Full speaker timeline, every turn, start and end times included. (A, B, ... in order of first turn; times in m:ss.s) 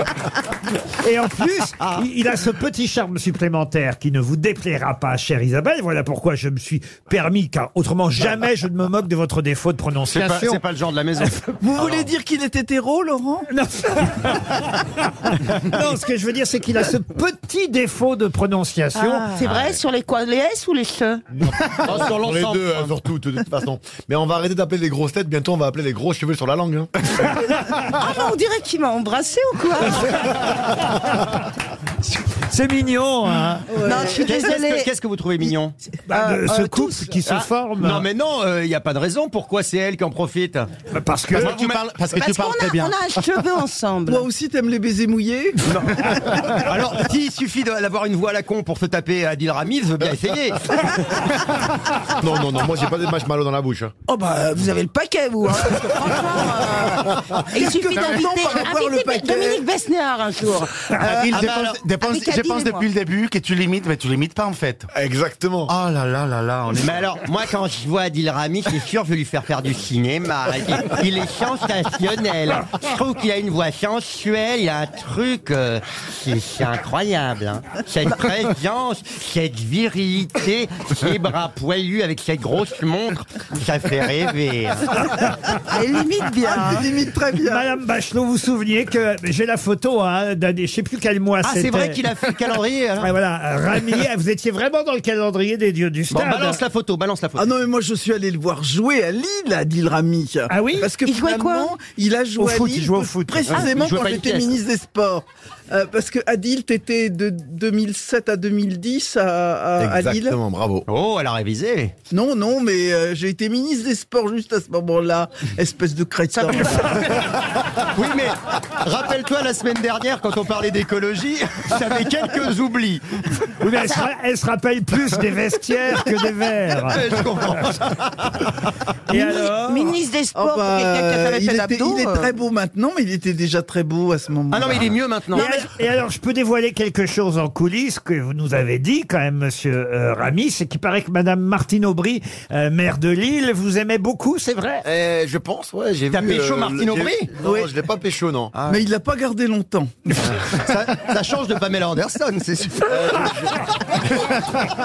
0:00.9-0:10.6 A
0:10.1-0:12.1 B
0:11.6-0:13.4 C
0:13.5-0:19.4 A
0:18.9-0:22.0 D
0:21.4-0:26.9 E
0:21.6-0:22.9 B
0:27.8-0:30.7 D
0:32.3-0:33.9 A
0:33.7-0:34.1 C
0:33.7-0:34.9 D
0:34.1-0:35.7 B
0:36.1-0:38.1 A
0:36.1-0:37.2 D
0:37.2-0:40.7 B
0:40.9-0:41.6 A
0:41.4-0:41.8 B
0:41.4-0:42.9 F
0:42.1-0:44.3 D
0:44.1-0:45.6 C
0:45.7-0:51.4 B
0:52.2-0:53.9 E
0:54.1-1:02.8 D
0:57.6-0:59.5 C
1:01.0-1:04.9 F
1:01.3-1:01.8 B
1:04.9-1:05.7 E
1:05.7-1:07.1 F
1:06.7-1:25.3 B
1:25.7-1:26.9 D
1:26.4-1:27.7 C
1:27.4-1:32.1 A
1:31.4-1:33.1 B
1:33.0-1:36.6 A
1:36.1-1:37.5 B
1:37.4-1:50.4 C
1:40.5-1:40.9 A
1:41.0-1:41.8 D
1:42.4-1:43.6 A
1:43.5-1:44.5 B
1:49.8-1:50.8 E
1:50.9-1:51.9 B
1:52.1-1:56.9 C
1:56.3-1:56.7 D
1:56.8-2:03.2 B
2:03.6-2:07.0 A
2:06.8-2:08.5 B
2:09.1-2:09.8 A
2:09.1-2:12.4 D
2:10.3-2:14.9 C
2:14.5-2:15.4 B
2:15.3-2:15.7 D
2:15.3-2:24.8 A
2:24.8-2:28.5 E
2:26.1-2:27.3 B
2:27.4-2:27.7 C
2:28.5-2:28.8 B
2:28.7-2:30.0 C
2:30.2-2:33.3 B
2:32.9-2:33.5 E
2:34.2-2:34.6 B